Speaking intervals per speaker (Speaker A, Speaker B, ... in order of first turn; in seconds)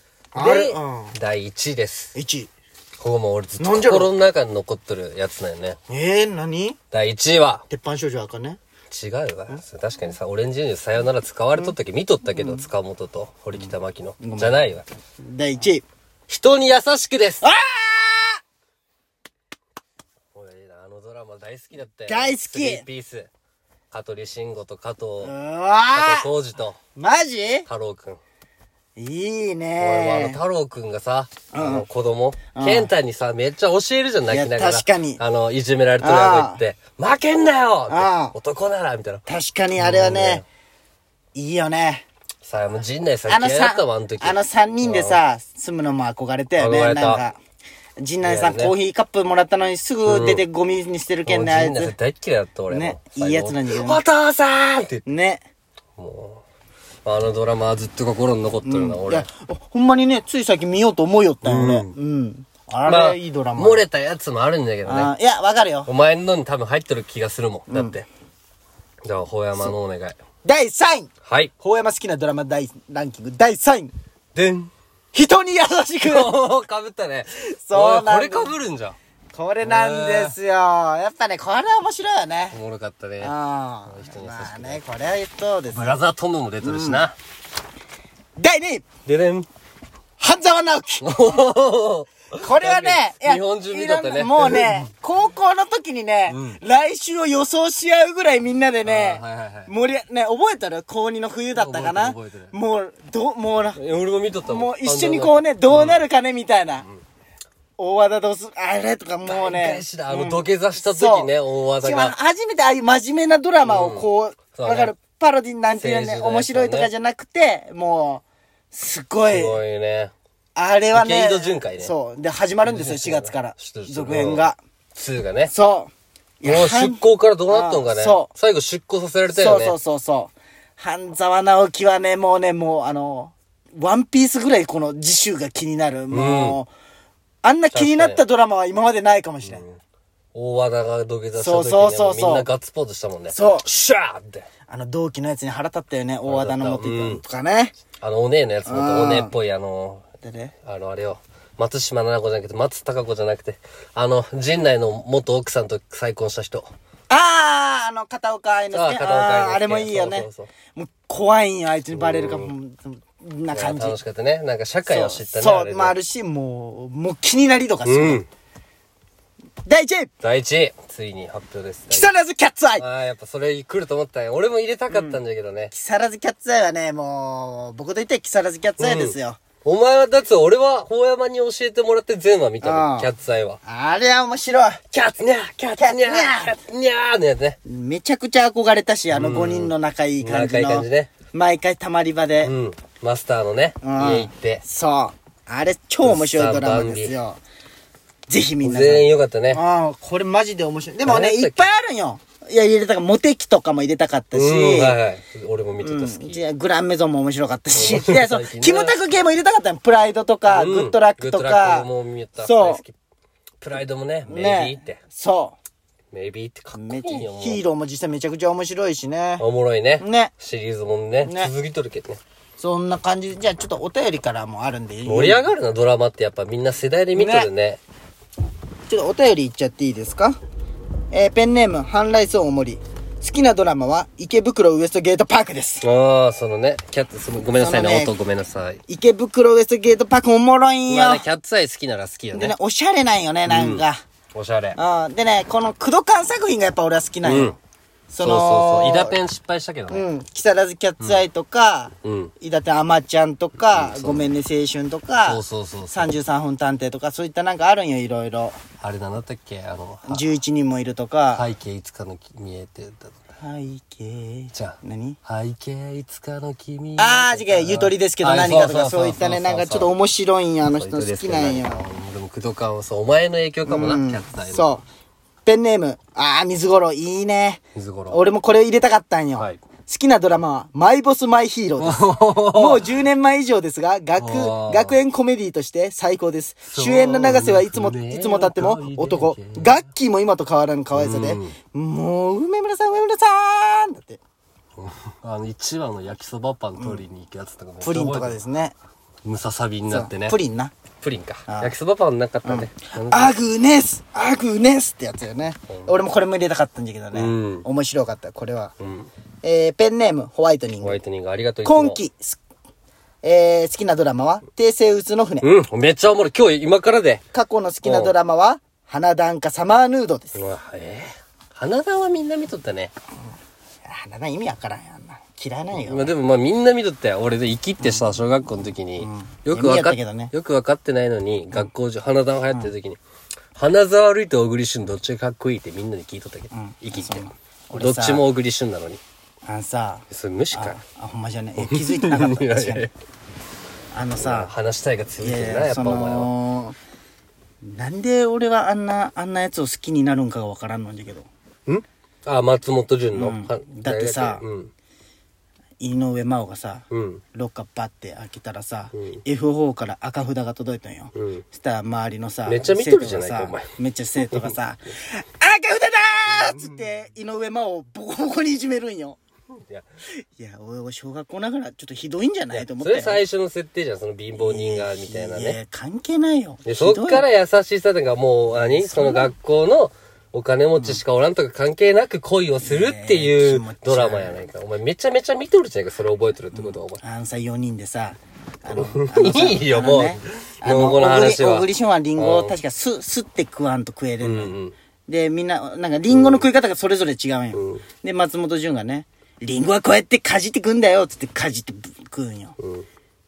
Speaker A: 0.3-1.1, 2.1-2.5, 3.6-4.1, 5.9-6.8, 7.7-8.6, 12.3-12.7, 14.2-14.6, 15.2-15.8, 17.4-18.4, 22.1-22.9, 25.2-26.3, 26.9-27.7, 29.0-30.4, 31.5-31.9, 32.5-32.9, 34.3-35.2, 36.0-36.6, 37.9-38.3, 39.3-40.4, 41.3-42.0, 43.3-47.4, 48.0-51.9, 52.7-54.0, 55.0-55.4, 58.6-63.8, 64.8-65.9, 67.7-68.0, 70.4-71.1, 71.6-73.9, 75.1-76.3, 77.4-78.5, 79.3-82.6, 83.2-86.0, 86.6-87.1, 88.4-88.8, 90.2-91.4, 92.4-103.8, 104.4-106.9, 107.8-119.6, 120.5-124.6, 125.5-128.3, 129.3-136.7, 137.4-139.6, 141.3-142.5, 143.3-143.7, 144.7-147.7, 148.6-149.3, 150.2-150.5, 157.1-164.0, 164.9-168.2, 169.7-170.1, 171.9-172.8, 174.9-175.2, 175.7-179.4, 182.6-183.1, 183.6-185.0, 185.8-186.6, 187.6-192.5, 193.8-197.4, 198.3-205.0, 205.8-212.8, 214.2-215.6, 216.7-219.4, 220.0-220.3, 221.2-221.5, 222.6-225.5, 227.1-227.5, 228.9-230.4, 231.1-235.8, 237.5-238.1, 238.9-241.2, 242.3-244.0, 244.8-247.6, 248.1-249.2, 249.9-258.6, 260.1-261.5, 263.4-265.2, 267.0-271.8, 273.6-274.8, 275.4-294.2, 296.8-297.0, 297.8-298.7, 299.9-300.7, 301.5-301.8, 302.4-308.7, 309.4-311.0, 311.6-312.4, 313.2-315.5, 317.3-320.4, 323.8-326.1, 329.0-330.3, 336.5-338.2, 339.4-342.9, 343.9-344.5, 345.2-346.8, 347.6-351.3, 353.1-354.4, 355.8-369.2, 370.2-373.2, 374.3-377.2, 378.5-379.3, 382.6-384.4, 386.5-394.6, 395.1-402.6
Speaker B: 0.3-2.1, 3.0-5.8, 6.9-7.6, 8.9-14.8, 16.3-17.4, 20.3-23.3, 23.9-25.3, 25.9-26.8, 27.7-28.2, 29.8-39.2, 39.8-40.4, 42.4-45.2, 46.6-47.2, 48.2-48.7, 50.0-50.4, 51.2-55.0, 56.0-56.4, 57.0-59.3, 61.4-61.9, 62.9-65.1, 65.9-68.0, 69.1-70.2, 71.2-71.5, 74.3-74.7, 76.0-79.0, 79.6-80.3, 82.5-83.3, 83.9-84.8, 85.7-87.2, 89.0-89.5, 91.0-94.8, 96.3-96.6, 98.8-99.7, 101.5-102.5, 103.8-106.0, 109.2-112.1, 113.6-114.9, 115.8-116.9, 119.3-120.1, 120.9-121.9, 122.6-125.5, 126.4-129.8, 136.1-136.6, 137.7-138.2, 139.4-139.8, 140.3-144.4, 146.2-147.2, 148.0-150.1, 150.6-156.7, 158.7-160.5, 161.9-162.5, 163.5-166.0, 167.8-168.3, 170.2-172.1, 172.8-175.7, 178.8-183.6, 184.9-187.6, 189.1-191.1, 192.4-194.6, 196.0-197.2, 198.6-199.6, 201.0-201.6, 204.3-206.4, 207.7-208.9, 210.5-212.9, 213.6-215.0, 216.1-217.6, 219.4-222.2, 225.1-227.8, 235.8-238.8, 240.9-242.5, 243.5-244.8, 247.2-247.6, 248.2-250.1, 252.0-252.3, 253.7-254.3, 255.2-256.1, 258.8-260.2, 261.3-263.2, 264.5-269.9, 270.7-274.7, 277.7-278.3, 281.8-282.9, 284.2-285.0, 286.7-289.8, 290.9-291.5, 294.8-298.4, 299.2-300.4, 301.0-303.4, 305.7-305.9, 307.1-307.6, 308.8-309.1, 310.8-312.0, 315.4-317.2, 317.8-318.1, 320.3-322.9, 325.7-333.0, 333.6-339.0, 340.1-340.8, 341.6-342.9, 344.2-346.3, 351.7-354.7, 356.9-357.2, 358.9-359.2, 361.1-361.4, 362.5-363.7, 364.2-364.5, 366.4-366.8, 372.5-375.6, 376.6-387.0, 388.7-392.5, 394.2-394.7, 396.1-396.4, 397.5-397.8, 402.6-402.9